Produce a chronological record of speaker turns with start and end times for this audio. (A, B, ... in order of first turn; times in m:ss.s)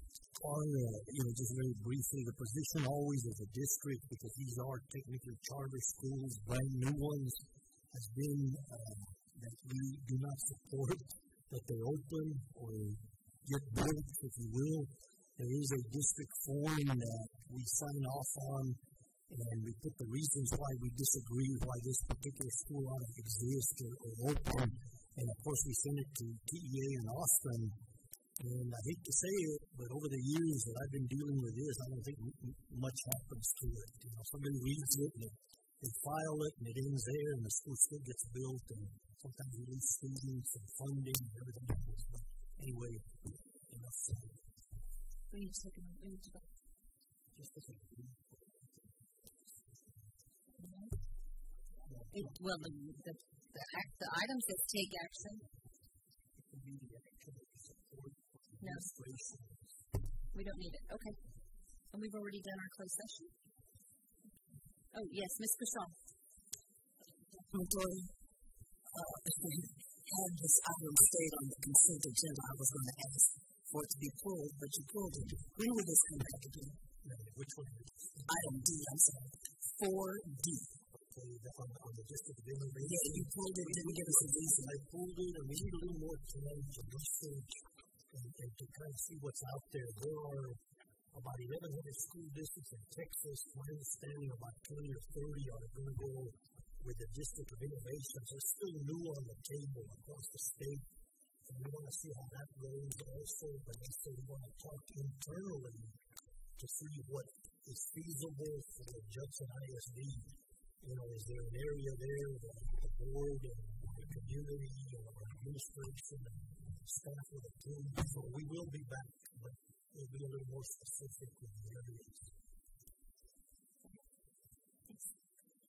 0:00.4-0:27.8 A
0:28.4-0:44.5 A
0:45.3-0:46.5 B
0:47.3-0:48.9 A
0:50.6-0:51.0 B
0:51.8-0:52.4 A
0:52.1-0:55.4 B
0:56.4-0:59.8 A
0:58.6-0:59.0 B
1:00.3-1:01.2 B
1:01.9-1:03.3 B
1:04.9-1:06.1 B
1:07.4-1:08.1 C
1:08.9-1:16.8 C
1:17.0-1:18.4 A
1:18.2-1:20.8 C
1:21.0-1:40.9 A
1:22.8-1:24.8 C
1:41.4-1:46.0 A
1:46.6-2:02.3 A